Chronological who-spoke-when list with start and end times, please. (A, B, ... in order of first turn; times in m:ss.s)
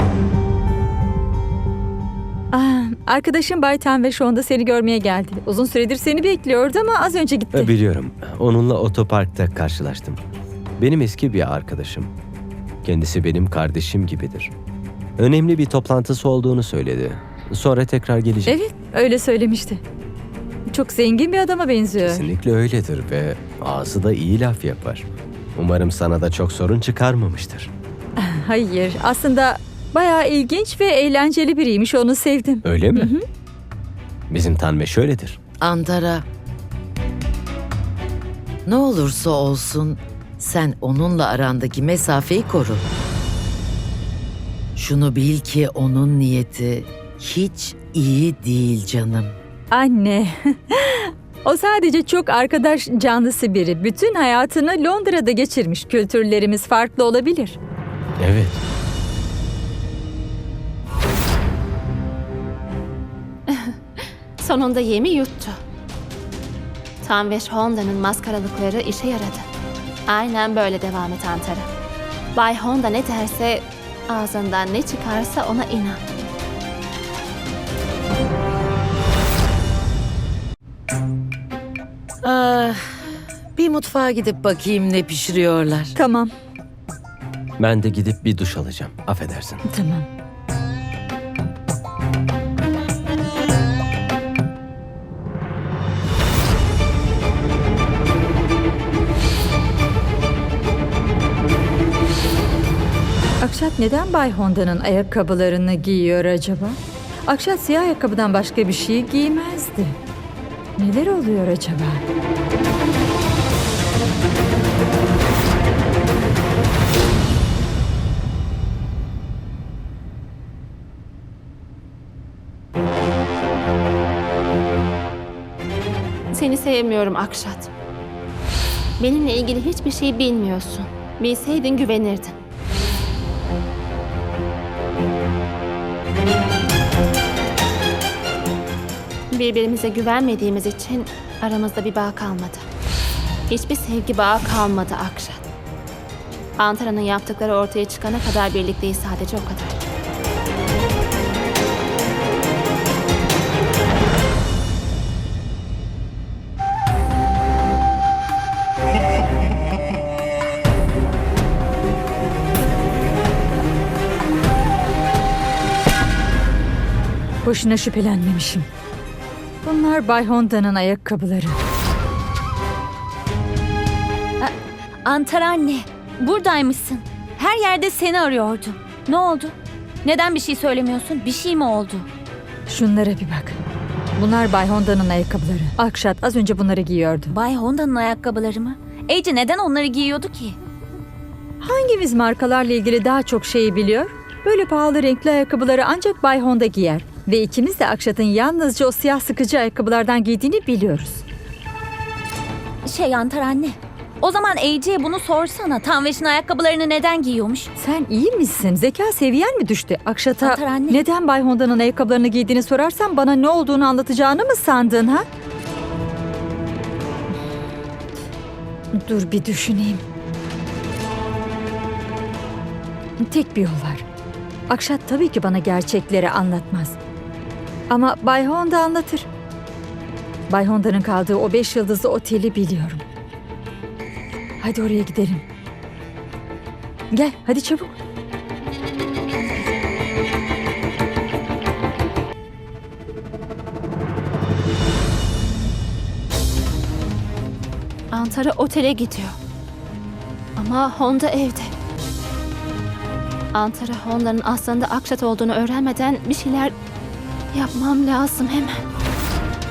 0:02.5-0:07.7 A
0:07.5-0:10.2 B
0:10.8-0:12.1 B
0:12.8-0:14.5 B
0:15.2-0:18.6 B
0:18.5-0:19.8 A
0:20.7-0:22.3 A
0:22.0-0:27.7 B
0:28.2-0:33.2 A
0:32.6-0:33.1 B
0:34.3-0:35.4 B
0:35.6-0:36.2 C
0:38.6-0:42.8 C
0:44.8-0:49.4 C
0:49.7-0:57.6 A
0:58.2-0:58.6 B
1:04.4-1:05.6 D
1:07.0-1:09.5 D
1:10.1-1:11.7 D
1:12.4-1:16.0 D
1:22.2-1:25.9 C
1:25.9-1:26.3 A
1:27.6-1:29.6 B
1:29.6-1:30.0 A
1:43.4-1:50.0 A
1:50.8-1:52.0 A
2:06.3-2:07.7 D
2:09.0-2:12.3 D
2:19.3-2:22.6 D
2:23.5-2:25.4 D
2:26.6-2:29.8 D
2:47.4-2:48.7 A
2:49.6-2:51.6 A
2:55.0-3:02.1 E
3:02.7-3:03.6 A
3:04.2-3:07.4 A
3:07.3-3:10.6 E
3:11.6-3:21.2 A
3:22.8-3:27.7 E
3:27.8-3:35.2 A
3:30.4-3:31.0 E
3:38.9-3:40.0 A
3:43.2-3:44.0 A
3:44.7-3:47.0 A
3:47.9-3:49.3 A
3:50.5-3:53.0 A
3:54.6-3:55.4 A
3:57.1-3:57.9 A
4:08.1-4:09.4 D
4:10.6-4:11.7 D
4:13.5-4:16.7 D
4:17.5-4:18.8 D